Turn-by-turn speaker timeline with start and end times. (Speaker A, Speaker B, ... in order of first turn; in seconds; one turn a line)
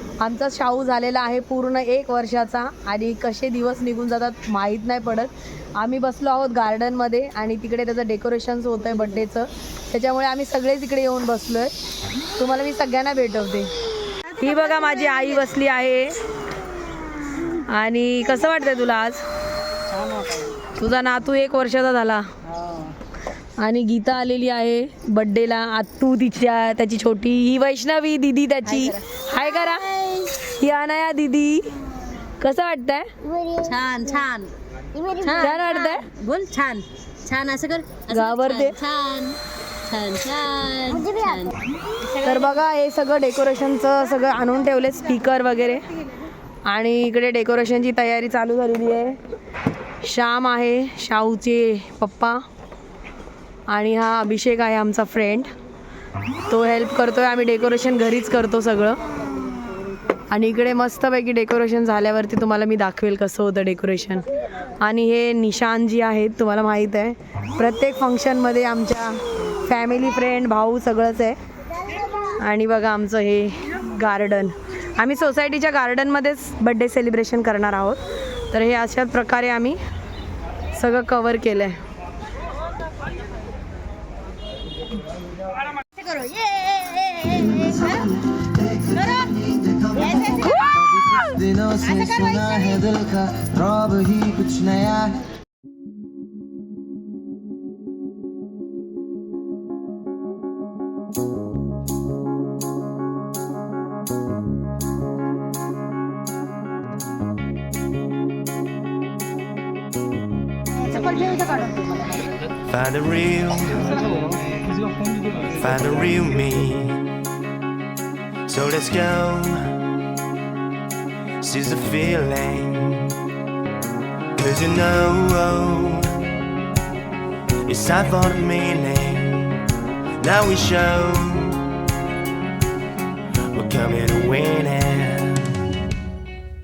Speaker A: 0.2-11.7
Speaker A: 12.3-13.7
Speaker A: 14.3-16.2
Speaker A: 17.4-19.2
Speaker A: 20.7-22.8
Speaker A: 23.6-33.1
Speaker B: 33.4-33.7
Speaker C: 33.6-34.5
Speaker A: 35.3-36.1
Speaker C: 36.1-41.5
Speaker A: 38.1-38.8
Speaker A: 42.1-45.8
Speaker A: 46.6-49.2
Speaker A: 50.0-52.4
Speaker A: 53.7-55.5
Speaker A: 56.5-59.0
Speaker A: 60.3-64.3
Speaker A: 64.8-71.4
Speaker A: 72.2-79.8
Speaker A: 80.7-81.8
Speaker B: 86.0-95.2
Speaker A: 111.1-111.5
Speaker D: 112.7-114.1
Speaker D: 115.4-117.1
Speaker D: 118.5-119.8
Speaker D: 121.4-123.2
Speaker D: 124.3-126.3
Speaker D: 127.6-131.8
Speaker D: 133.5-135.7